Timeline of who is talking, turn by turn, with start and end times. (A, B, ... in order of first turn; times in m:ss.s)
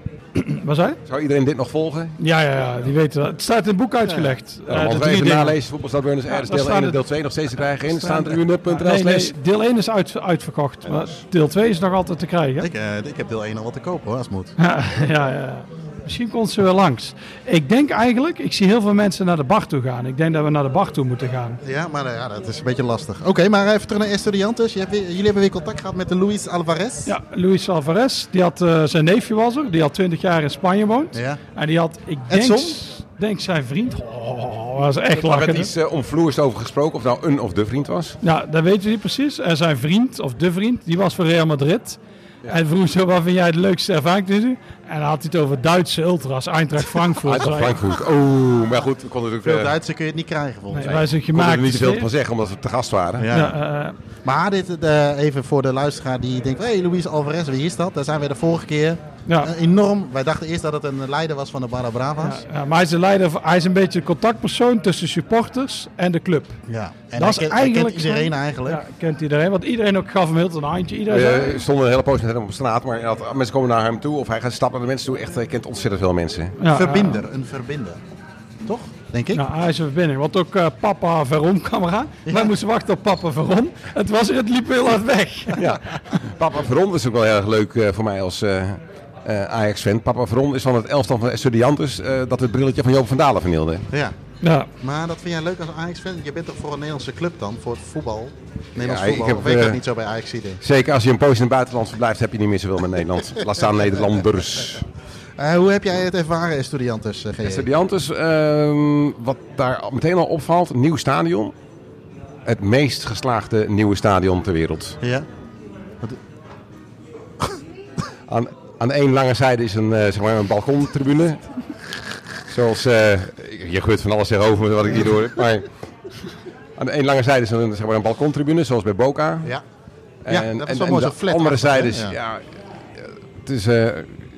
0:00.3-0:01.0 A
0:01.1-0:02.2 B
0:02.2-0:05.6 A
0:04.0-0:04.4 C
0:04.7-0:09.3 B
0:06.3-0:07.0 A
0:07.9-0:12.7 A
0:10.8-0:11.2 B
0:12.6-0:14.5 C
0:14.6-0:21.6 A
0:21.6-0:27.1 C
0:27.0-0:35.7 A
0:31.1-0:31.4 C
0:32.3-0:32.8 C
0:35.1-0:38.2 B
0:38.2-0:47.8 A
0:47.2-0:49.7 B
0:49.4-0:51.0 C
0:50.7-0:52.1 A
0:50.8-0:53.3 B
0:53.2-0:53.6 C
0:53.3-0:54.0 A
0:54.2-1:02.4 C
1:02.2-1:06.6 A
1:06.7-1:08.8 C
1:07.2-1:11.6 A
1:11.1-1:16.6 B
1:16.6-1:17.2 A
1:16.7-1:18.0 C
1:18.6-1:19.4 C
1:19.3-1:25.7 A
1:22.2-1:22.5 C
1:25.6-1:33.9 B
1:34.4-1:34.7 A
1:34.8-1:40.6 C
1:38.8-1:39.8 B
1:40.6-1:44.8 B
1:45.4-1:47.7 C
1:47.4-1:51.5 B
1:52.4-1:55.0 B
1:55.0-1:55.3 C
1:58.3-2:01.4 B
2:02.5-2:05.7 B
2:06.8-2:09.5 B
2:10.2-2:12.4 B
2:10.3-2:12.2 C
2:13.0-2:14.2 B